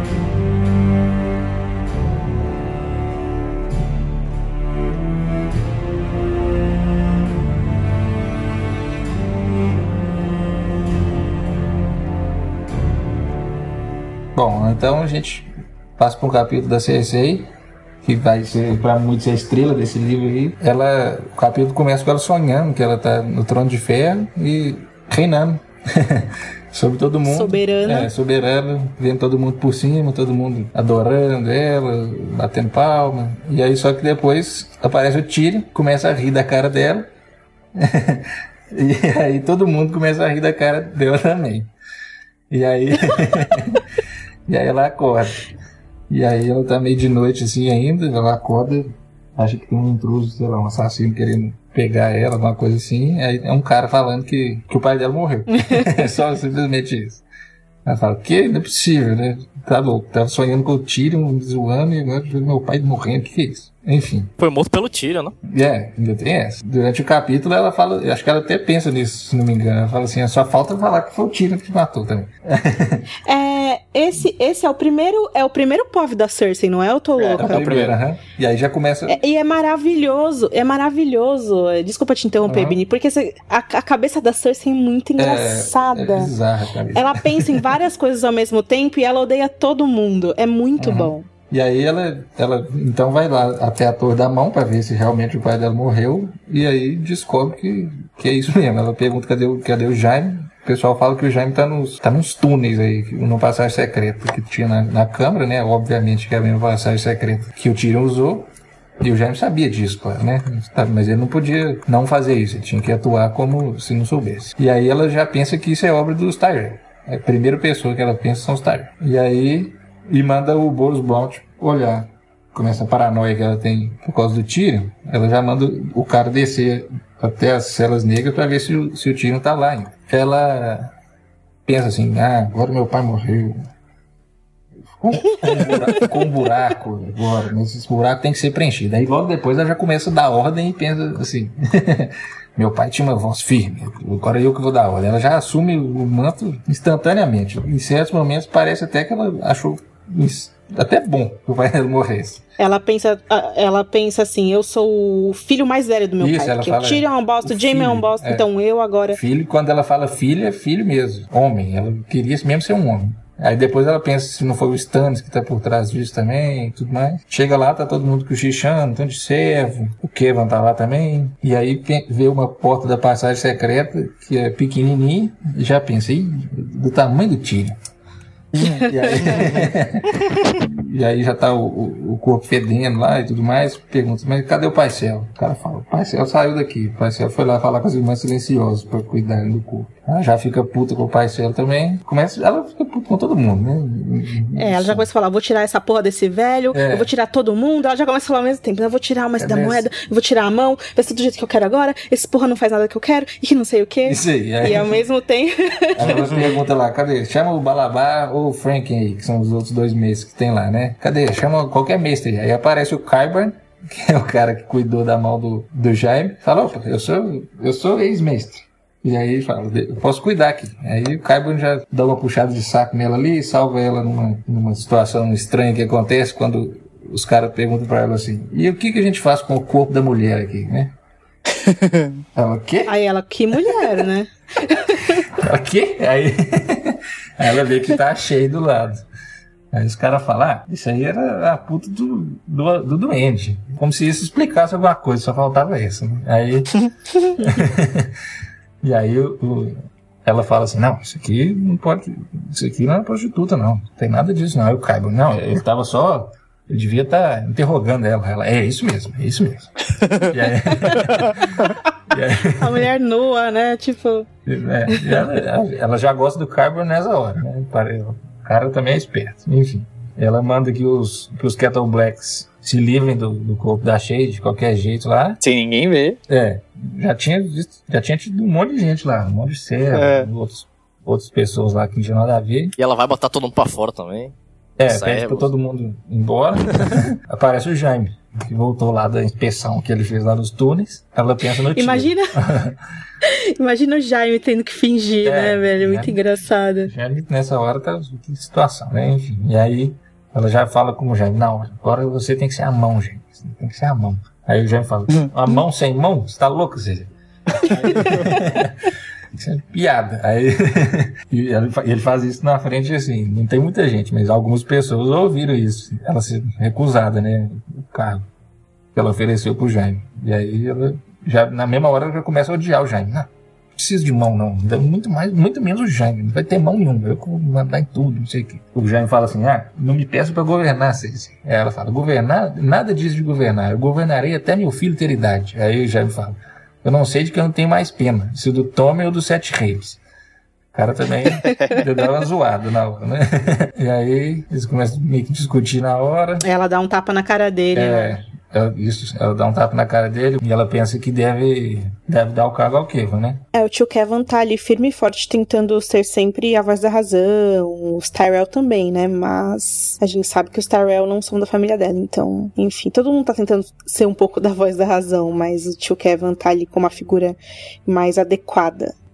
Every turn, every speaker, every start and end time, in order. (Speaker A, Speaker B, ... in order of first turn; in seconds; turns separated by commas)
Speaker A: 14.3-17.5, Speaker A: 18.0-37.1, Speaker B: 27.3-28.1, Speaker A: 37.8-41.7, Speaker A: 42.5-43.8, Speaker A: 44.5-45.5, Speaker A: 46.1-57.2, Speaker B: 55.6-55.9, Speaker A: 57.9-64.3, Speaker C: 64.4-65.3, Speaker A: 65.5-73.1, Speaker B: 73.3-77.7, Speaker D: 77.2-78.0, Speaker A: 77.4-79.2, Speaker B: 79.1-86.3, Speaker A: 82.5-82.8, Speaker A: 85.2-87.7, Speaker B: 87.0-91.3, Speaker A: 90.8-108.5, Speaker A: 109.0-130.9, Speaker A: 131.7-133.6, Speaker A: 134.9-152.4, Speaker B: 152.6-159.2, Speaker A: 156.2-158.5, Speaker A: 159.1-177.8, Speaker D: 178.6-178.8, Speaker A: 178.7-195.1, Speaker B: 194.6-206.1, Speaker A: 196.7-197.1, Speaker A: 199.4-199.9, Speaker A: 204.1-205.0, Speaker A: 206.0-230.9, Speaker D: 231.5-232.2, Speaker A: 232.3-232.9, Speaker B: 232.9-235.2, Speaker A: 235.3-239.1, Speaker A: 239.7-248.1, Speaker B: 247.3-247.5, Speaker A: 248.8-262.9, Speaker B: 260.8-261.7, Speaker B: 262.6-264.3, Speaker A: 264.5-275.4, Speaker B: 264.9-265.2, Speaker D: 275.4-276.2, Speaker A: 276.3-282.7, Speaker D: 279.9-280.3, Speaker C: 282.8-284.3, Speaker A: 284.8-292.8, Speaker C: 284.9-285.5, Speaker B: 291.8-292.3, Speaker B: 293.2-296.9, Speaker A: 295.2-296.2, Speaker A: 296.8-318.3, Speaker D: 307.5-308.4, Speaker A: 318.9-340.0, Speaker A: 340.7-346.4, Speaker D: 341.4-341.8, Speaker B: 346.4-348.2, Speaker A: 347.7-353.4, Speaker B: 353.5-368.9